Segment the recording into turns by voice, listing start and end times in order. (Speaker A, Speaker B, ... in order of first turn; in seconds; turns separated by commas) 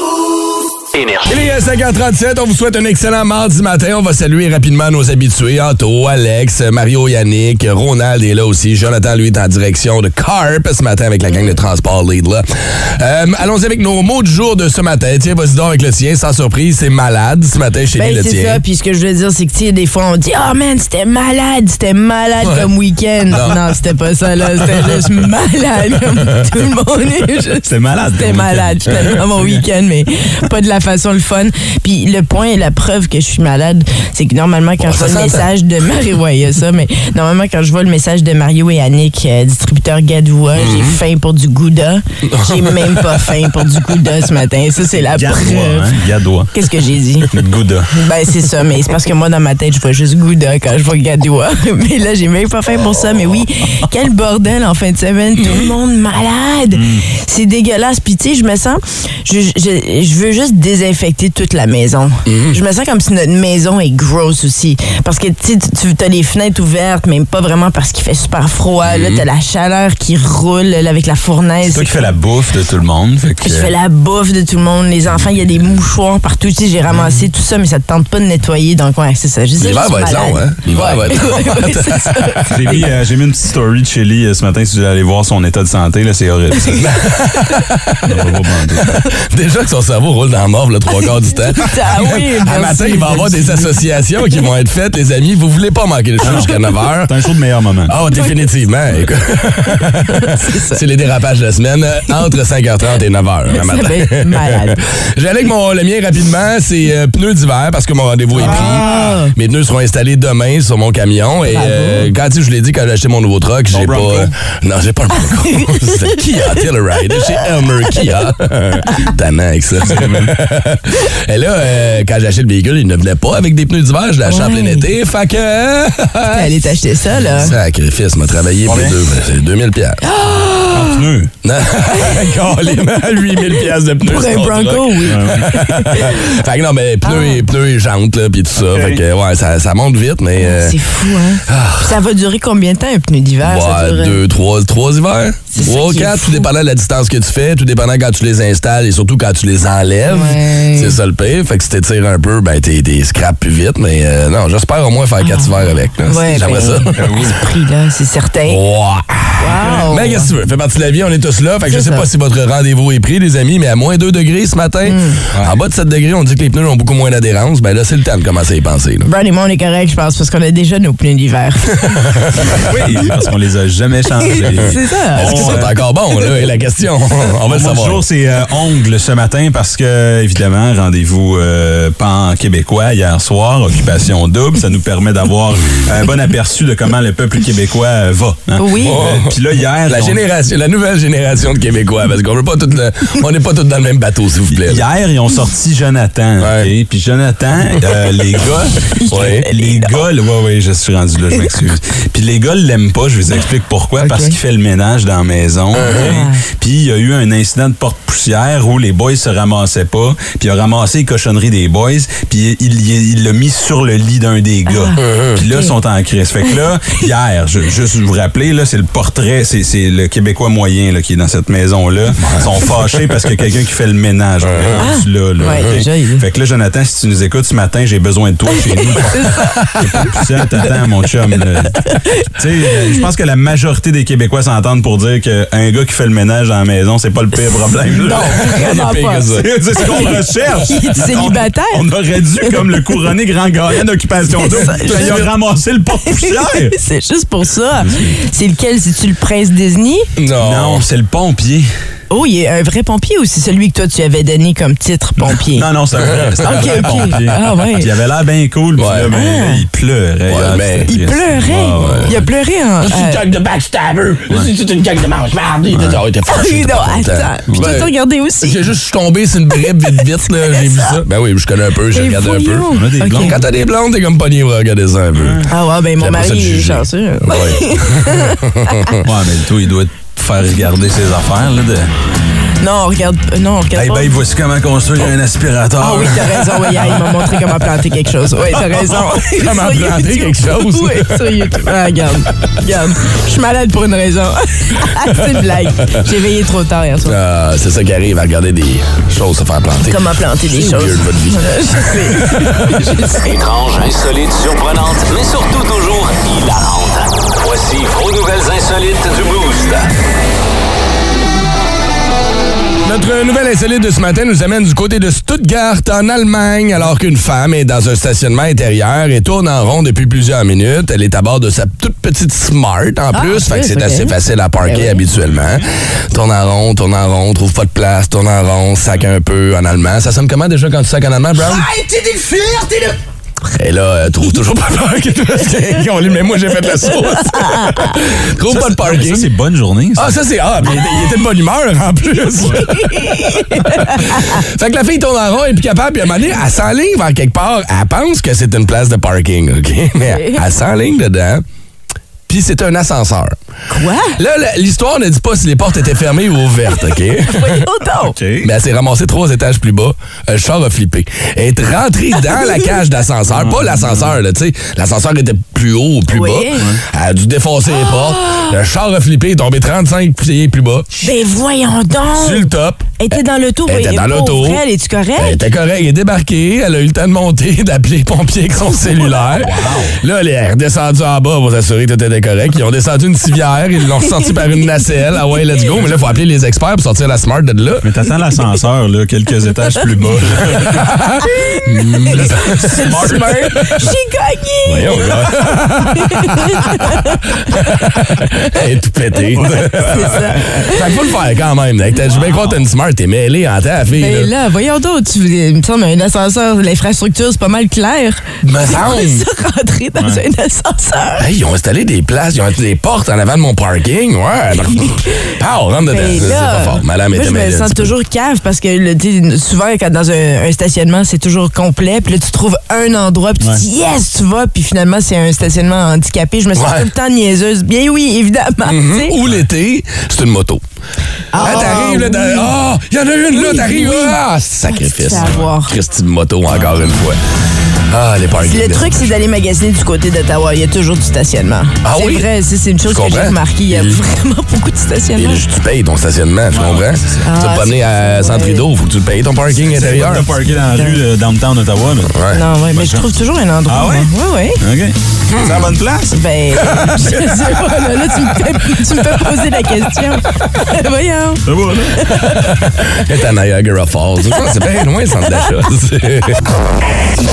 Speaker A: 0.9-1.5, Speaker B: 1.3-18.6, Speaker C: 18.0-45.9, Speaker B: 22.4-22.7, Speaker B: 23.3-23.6, Speaker B: 24.6-25.1, Speaker D: 27.7-29.6, Speaker B: 34.8-35.5, Speaker B: 40.5-41.0, Speaker B: 42.3-43.4, Speaker D: 45.1-46.5, Speaker C: 46.5-47.3, Speaker D: 47.3-47.9, Speaker C: 47.9-72.1, Speaker B: 55.4-55.7, Speaker D: 56.7-57.0, Speaker B: 62.3-62.6, Speaker B: 69.0-69.2, Speaker D: 71.7-73.7, Speaker C: 73.4-82.8, Speaker D: 76.9-77.2, Speaker B: 79.6-82.6, Speaker D: 82.5-86.8, Speaker B: 86.8-88.3, Speaker D: 88.1-89.0, Speaker B: 88.8-97.2, Speaker C: 90.9-93.8, Speaker D: 96.2-98.0, Speaker B: 97.9-126.8, Speaker C: 98.1-98.4, Speaker C: 100.1-100.8, Speaker C: 103.5-104.8, Speaker C: 108.4-109.3, Speaker D: 108.4-109.2, Speaker C: 111.5-112.1, Speaker D: 113.7-114.3, Speaker C: 115.2-116.6, Speaker C: 117.1-117.4, Speaker C: 118.8-119.1, Speaker D: 119.8-120.3, Speaker C: 124.2-124.9, Speaker C: 126.3-127.5, Speaker D: 127.2-127.5, Speaker B: 127.4-130.0, Speaker D: 128.7-129.0, Speaker C: 130.0-131.0, Speaker D: 130.7-131.3, Speaker B: 131.4-140.8, Speaker C: 131.9-132.5, Speaker C: 133.4-136.3, Speaker D: 135.1-135.5, Speaker C: 137.1-137.4, Speaker D: 138.6-139.0, Speaker C: 140.4-144.2, Speaker B: 141.5-142.0, Speaker B: 143.4-157.3, Speaker C: 145.5-146.5, Speaker C: 150.1-151.0, Speaker C: 155.2-158.6, Speaker D: 157.0-157.2, Speaker B: 158.5-169.1, Speaker C: 159.4-160.3, Speaker C: 161.7-162.1, Speaker C: 164.9-165.2, Speaker C: 169.1-171.8, Speaker B: 171.8-172.6, Speaker D: 172.5-175.7, Speaker C: 174.3-175.6, Speaker B: 175.1-178.0, Speaker D: 177.5-190.2, Speaker C: 188.6-189.0, Speaker B: 188.8-194.8, Speaker D: 194.7-238.4, Speaker B: 196.4-196.7, Speaker C: 199.0-199.9, Speaker B: 199.1-199.4, Speaker C: 204.0-204.4, Speaker B: 205.8-206.2, Speaker C: 205.9-206.4, Speaker C: 214.7-215.7, Speaker B: 215.0-215.4, Speaker B: 222.2-222.7, Speaker B: 224.4-224.8, Speaker C: 224.8-226.2, Speaker B: 225.6-225.8, Speaker C: 228.6-230.7, Speaker C: 231.8-232.2, Speaker C: 238.0-241.9, Speaker B: 238.1-239.5, Speaker D: 239.3-246.8, Speaker C: 242.4-243.1, Speaker C: 244.4-245.3, Speaker B: 244.8-245.3, Speaker C: 246.1-250.1, Speaker D: 247.8-248.2, Speaker B: 250.2-250.9, Speaker D: 250.4-251.7, Speaker C: 252.1-255.7, Speaker D: 255.2-262.2, Speaker B: 256.0-257.2, Speaker C: 256.4-257.9, Speaker B: 258.8-259.1, Speaker C: 259.1-259.6, Speaker B: 260.3-260.9, Speaker C: 260.9-263.2, Speaker B: 261.7-262.1, Speaker B: 262.8-279.1, Speaker D: 265.7-266.0, Speaker C: 266.3-268.6, Speaker C: 270.4-271.0, Speaker C: 271.9-273.4, Speaker D: 272.7-273.4, Speaker D: 275.2-275.5, Speaker C: 275.5-279.0, Speaker D: 279.0-281.9, Speaker C: 282.6-284.1, Speaker D: 283.7-287.4, Speaker C: 285.8-297.2, Speaker B: 289.1-291.6, Speaker B: 297.0-302.8, Speaker C: 299.9-303.3, Speaker A: 303.2-309.9, Speaker B: 312.8-331.7, Speaker C: 323.1-325.0, Speaker D: 325.1-325.6, Speaker B: 333.4-339.3, Speaker C: 336.9-338.0, Speaker D: 338.5-340.1, Speaker B: 339.9-351.4, Speaker C: 342.6-344.4, Speaker C: 350.0-350.4, Speaker B: 352.3-353.4, Speaker C: 353.7-354.2, Speaker B: 354.2-357.7, Speaker C: 357.3-358.2, Speaker D: 358.1-358.5, Speaker B: 358.4-370.9, Speaker D: 363.3-364.2, Speaker C: 366.1-366.6, Speaker C: 367.9-368.5, Speaker C: 371.0-375.4, Speaker B: 372.1-373.1, Speaker B: 373.7-374.6, Speaker B: 375.2-387.9, Speaker D: 379.4-379.9, Speaker D: 387.8-390.9, Speaker B: 390.4-393.9, Speaker C: 391.2-397.8, Speaker D: 392.1-393.3, Speaker B: 394.7-404.3, Speaker D: 399.4-400.1, Speaker C: 399.9-401.0, Speaker D: 402.1-402.6, Speaker C: 404.0-411.3, Speaker B: 408.4-409.2, Speaker B: 411.2-417.9, Speaker C: 415.9-429.2, Speaker B: 426.6-426.9, Speaker B: 428.7-430.6, Speaker C: 431.3-432.5, Speaker B: 431.4-437.2, Speaker C: 433.3-435.7, Speaker D: 436.5-437.0, Speaker B: 437.9-439.1, Speaker C: 438.4-445.4, Speaker B: 441.8-442.3, Speaker B: 442.8-444.0, Speaker B: 445.2-450.3, Speaker D: 446.5-447.2, Speaker C: 447.2-448.6, Speaker D: 449.5-452.1, Speaker C: 450.7-451.0, Speaker B: 452.1-452.4, Speaker C: 452.3-454.6, Speaker D: 452.7-453.1, Speaker D: 453.7-456.2, Speaker B: 455.3-455.8, Speaker C: 456.1-462.6, Speaker B: 456.7-457.4, Speaker D: 461.5-462.0, Speaker B: 462.4-466.4